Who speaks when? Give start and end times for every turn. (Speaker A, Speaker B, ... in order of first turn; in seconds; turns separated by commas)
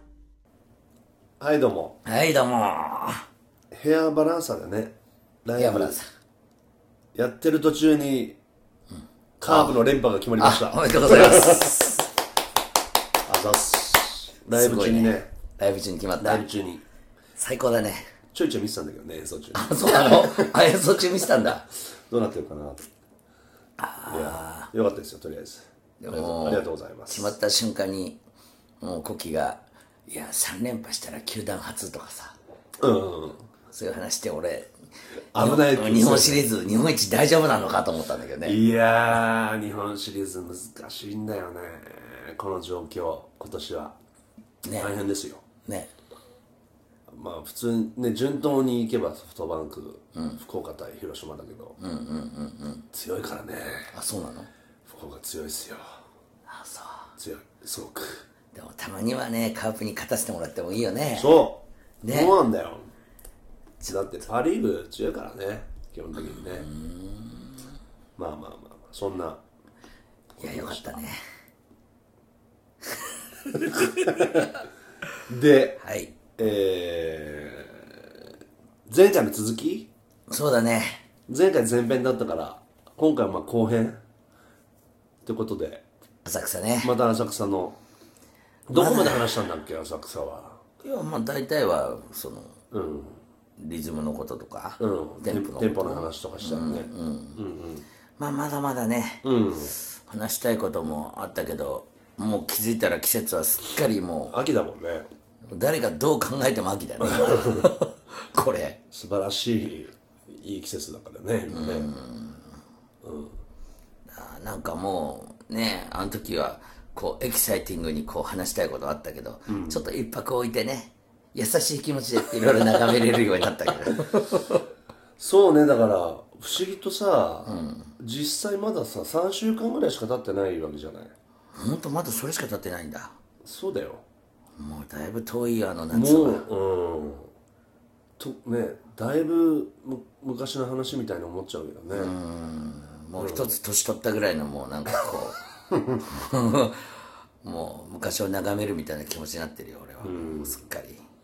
Speaker A: 1.4-2.0, Speaker B: 2.0-3.2, Speaker A: 3.7-6.0, Speaker B: 5.5-6.1, Speaker A: 7.1-8.4, Speaker A: 9.4-11.8, Speaker B: 9.4-9.8, Speaker B: 10.4-12.1, Speaker A: 13.2-15.3, Speaker B: 14.5-16.4, Speaker A: 16.2-16.8, Speaker B: 17.4-18.1, Speaker A: 18.3-20.5, Speaker B: 19.5-21.6, Speaker A: 21.2-22.9, Speaker B: 23.8-24.7, Speaker A: 24.1-27.3, Speaker B: 26.0-28.2, Speaker B: 28.8-32.4, Speaker A: 32.8-33.4, Speaker B: 33.7-34.7, Speaker A: 35.3-36.5, Speaker B: 35.3-38.6, Speaker A: 38.4-44.0, Speaker B: 44.6-44.9, Speaker A: 44.8-45.4, Speaker B: 45.6-45.9, Speaker A: 47.1-51.8, Speaker B: 50.1-50.4, Speaker B: 51.8-52.9, Speaker A: 52.9-53.9, Speaker B: 53.9-54.5, Speaker A: 54.9-55.8, Speaker B: 56.5-57.1, Speaker A: 57.2-58.2, Speaker B: 58.5-61.5, Speaker A: 61.1-62.9, Speaker B: 62.0-62.4, Speaker A: 63.9-66.7, Speaker B: 66.1-67.7, Speaker A: 68.2-69.4, Speaker A: 70.4-71.0, Speaker B: 70.4-71.2, Speaker B: 72.8-74.5, Speaker A: 73.6-74.5, Speaker A: 75.3-75.8, Speaker B: 75.8-76.1, Speaker A: 76.4-78.3, Speaker A: 78.9-79.9, Speaker B: 80.3-81.0, Speaker A: 81.3-84.0, Speaker A: 85.2-85.8, Speaker B: 86.2-86.9, Speaker A: 86.8-87.8, Speaker A: 88.7-90.6, Speaker B: 88.7-89.4, Speaker B: 90.8-92.6, Speaker A: 92.7-93.2, Speaker B: 93.6-97.4, Speaker A: 94.8-97.8, Speaker B: 98.2-104.4, Speaker A: 99.2-99.8, Speaker A: 104.3-105.1, Speaker B: 105.5-108.8, Speaker A: 107.0-107.7, Speaker A: 108.9-111.9, Speaker B: 111.5-112.5, Speaker A: 113.0-113.4, Speaker B: 114.1-124.6, Speaker A: 119.5-119.8, Speaker A: 125.2-131.1, Speaker B: 127.5-127.9, Speaker B: 131.5-133.2, Speaker A: 133.4-134.0, Speaker B: 134.6-136.5, Speaker A: 135.9-137.3, Speaker A: 138.2-142.1, Speaker B: 141.9-145.4, Speaker A: 143.2-143.5, Speaker A: 145.7-146.0, Speaker B: 146.0-151.0, Speaker A: 150.0-150.6